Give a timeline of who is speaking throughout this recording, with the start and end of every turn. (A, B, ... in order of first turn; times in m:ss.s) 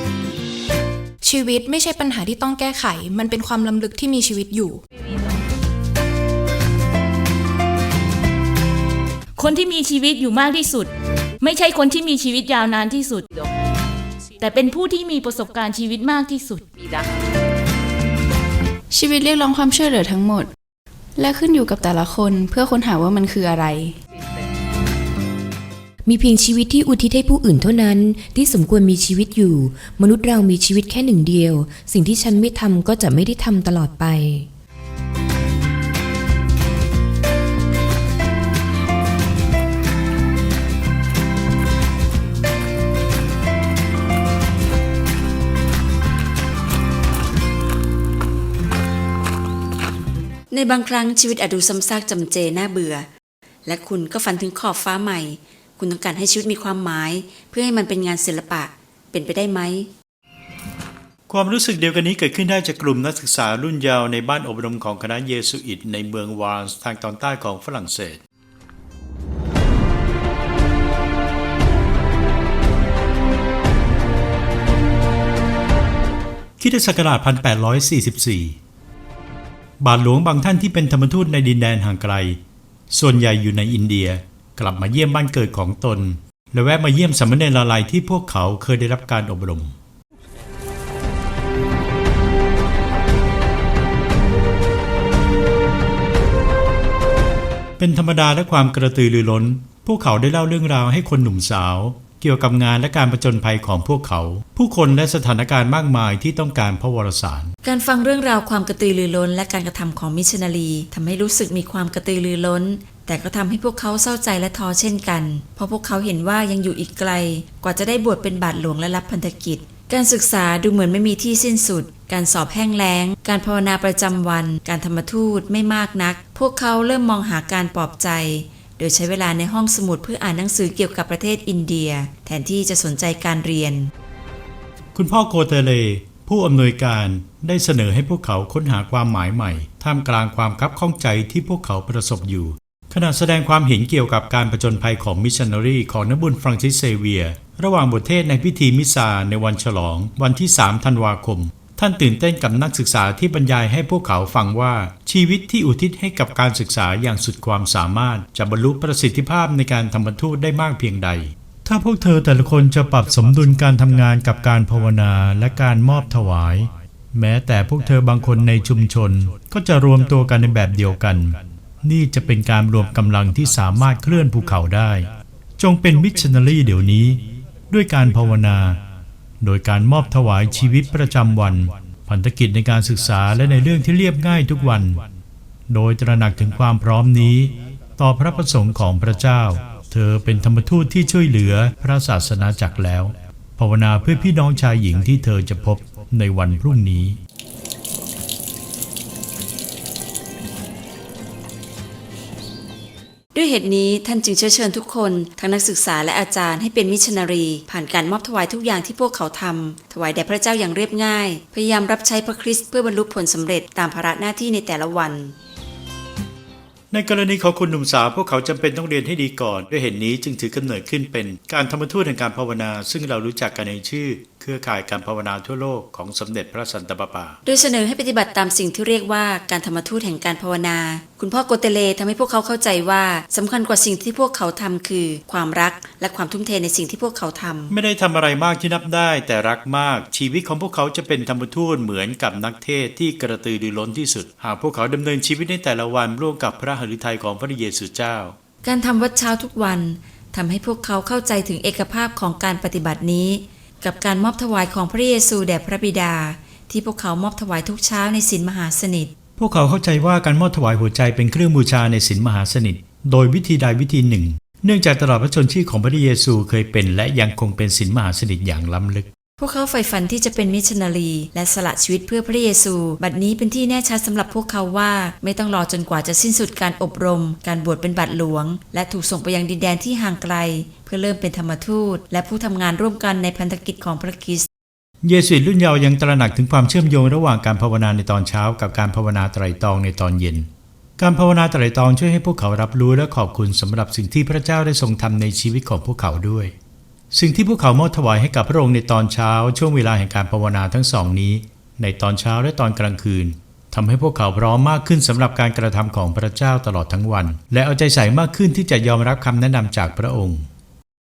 0:01.2-0:04.8 A
0:09.4-0:10.9 B
0:11.4-0:13.2 B
0:14.4-0:16.7 B
0:18.9-0:20.5 C
0:21.2-0:24.0 C
0:26.0-0:34.5 D
0:50.5-0:53.1 E
0:53.6-0:59.9 E
1:01.3-1:08.2 F
1:16.6-1:18.6 F
1:19.8-1:22.4 F
1:22.9-1:29.7 F
1:37.8-1:47.5 F
1:47.6-2:13.9 E
2:14.9-2:58.8 F
2:59.4-3:05.0 F
3:05.7-3:17.2 F
3:23.3-3:35.4 E
3:36.9-3:47.4 F
3:47.4-3:57.7 E
3:57.7-4:08.3 F
4:08.6-4:19.1 E
4:19.4-4:29.1 F
4:29.4-4:44.4 E
4:45.0-4:56.5 F
4:57.1-5:10.5 F